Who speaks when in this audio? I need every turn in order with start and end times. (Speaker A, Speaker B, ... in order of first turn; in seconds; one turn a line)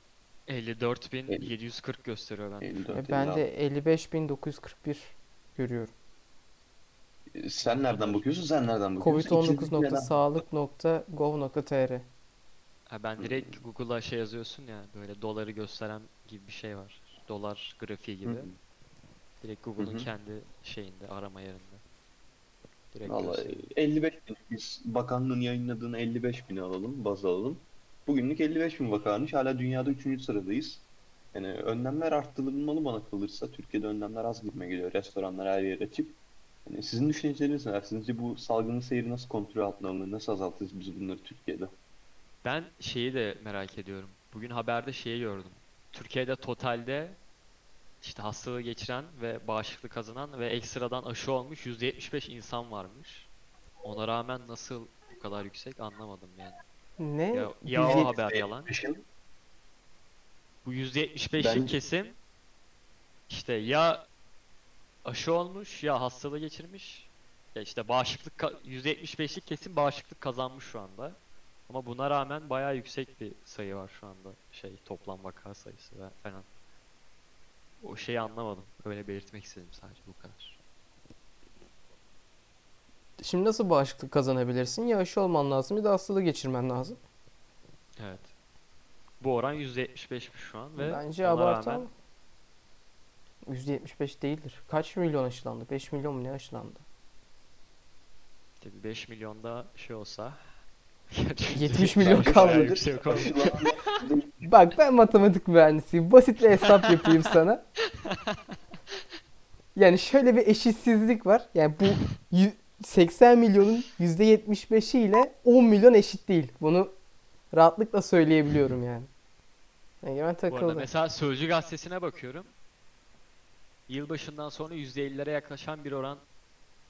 Speaker A: 0.5-2.9
Speaker B: 2.6-3.4
Speaker C: 2.9-5.9
Speaker B: 7.3-10.2
Speaker A: 7.7-8.2
Speaker C: 9.0-12.1
Speaker A: 12.9-18.5
Speaker B: 13.2-13.6
Speaker B: 18.2-18.6
Speaker A: 19.4-21.8
Speaker B: 19.8-20.1
Speaker A: 22.9-23.7
Speaker B: 23.1-41.7
Speaker A: 42.4-47.2
Speaker A: 48.0-53.3
Speaker A: 53.8-56.6
Speaker C: 57.0-58.1
Speaker A: 57.3-58.7
Speaker B: 57.8-59.0
Speaker A: 60.6-62.2
Speaker B: 61.4-61.8
Speaker A: 63.3-64.1
Speaker A: 65.0-71.2
Speaker A: 71.7-76.5
Speaker A: 77.8-80.6
Speaker C: 83.2-87.0
Speaker A: 88.0-88.3
Speaker A: 89.2-91.9
Speaker C: 90.8-91.9
Speaker C: 93.5-96.8
Speaker A: 98.6-100.6
Speaker A: 101.1-104.0
Speaker C: 101.5-102.8
Speaker B: 102.0-104.5
Speaker C: 104.4-107.6
Speaker A: 108.0-108.4
Speaker C: 109.8-116.9
Speaker C: 117.5-119.1
Speaker C: 120.0-120.9
Speaker A: 120.5-122.5
Speaker A: 123.9-126.2